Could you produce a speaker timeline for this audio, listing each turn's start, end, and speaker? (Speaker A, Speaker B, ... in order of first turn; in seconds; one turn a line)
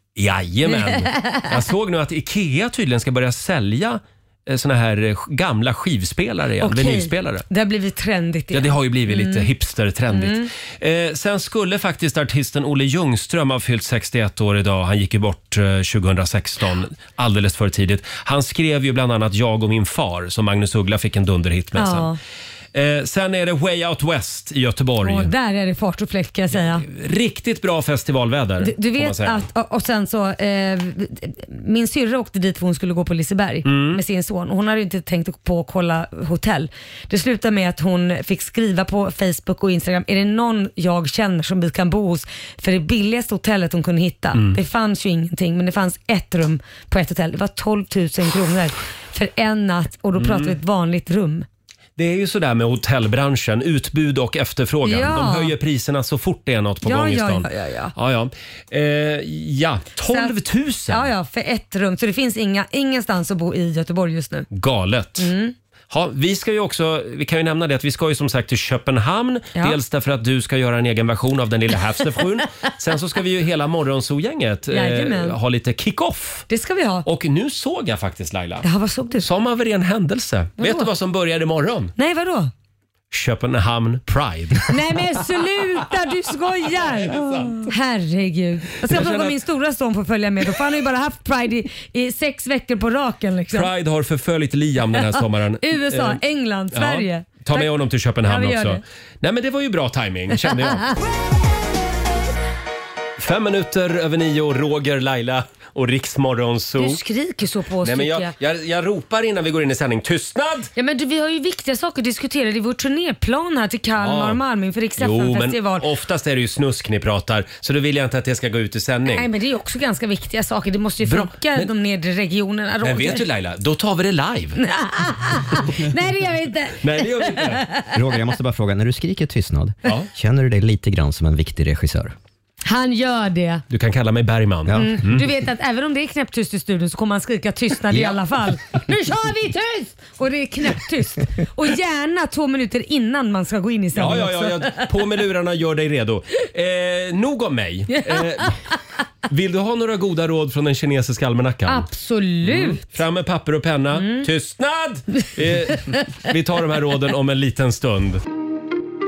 Speaker A: 0.1-7.4
Speaker B: 0.7-1.5
Speaker B: 6.6-9.5
Speaker A: 8.5-22.1
Speaker B: 10.1-10.5
Speaker B: 21.7-22.2
Speaker A: 22.7-25.3
Speaker B: 25.0-26.8
Speaker A: 26.5-29.4
Speaker B: 28.6-51.5
Speaker A: 33.6-34.0
Speaker A: 44.3-44.6
Speaker A: 50.2-50.5
Speaker A: 52.0-61.1
Speaker B: 54.8-55.5
Speaker B: 56.8-57.9
Speaker B: 60.9-64.5
Speaker A: 64.5-65.3
Speaker B: 65.2-65.5
Speaker A: 65.9-76.5
Speaker B: 74.7-75.4
Speaker B: 76.5-77.0
Speaker A: 77.0-78.7
Speaker B: 78.6-79.2
Speaker A: 79.2-81.9
Speaker B: 80.6-80.9
Speaker B: 82.0-82.5
Speaker A: 83.1-84.7
Speaker B: 84.7-93.7
Speaker A: 86.8-87.7
Speaker A: 88.8-89.4
Speaker A: 93.5-96.2
Speaker B: 95.0-98.8
Speaker A: 96.7-100.9
Speaker B: 100.4-100.9
Speaker A: 103.2-107.0
Speaker B: 106.8-108.3
Speaker A: 107.8-110.7
Speaker B: 110.8-115.8
Speaker A: 114.0-114.4
Speaker A: 115.0-119.3
Speaker B: 119.0-123.2
Speaker A: 121.0-121.7
Speaker A: 122.8-124.6
Speaker B: 124.6-127.8
Speaker A: 126.8-127.6
Speaker C: 127.9-132.1
Speaker B: 132.6-133.6
Speaker A: 133.7-135.2
Speaker C: 134.7-135.0
Speaker B: 134.8-144.8
Speaker C: 137.9-138.2
Speaker A: 143.9-148.6
Speaker B: 147.9-148.5
Speaker A: 149.3-151.9
Speaker B: 151.7-152.8
Speaker A: 152.4-158.2
Speaker B: 153.9-154.2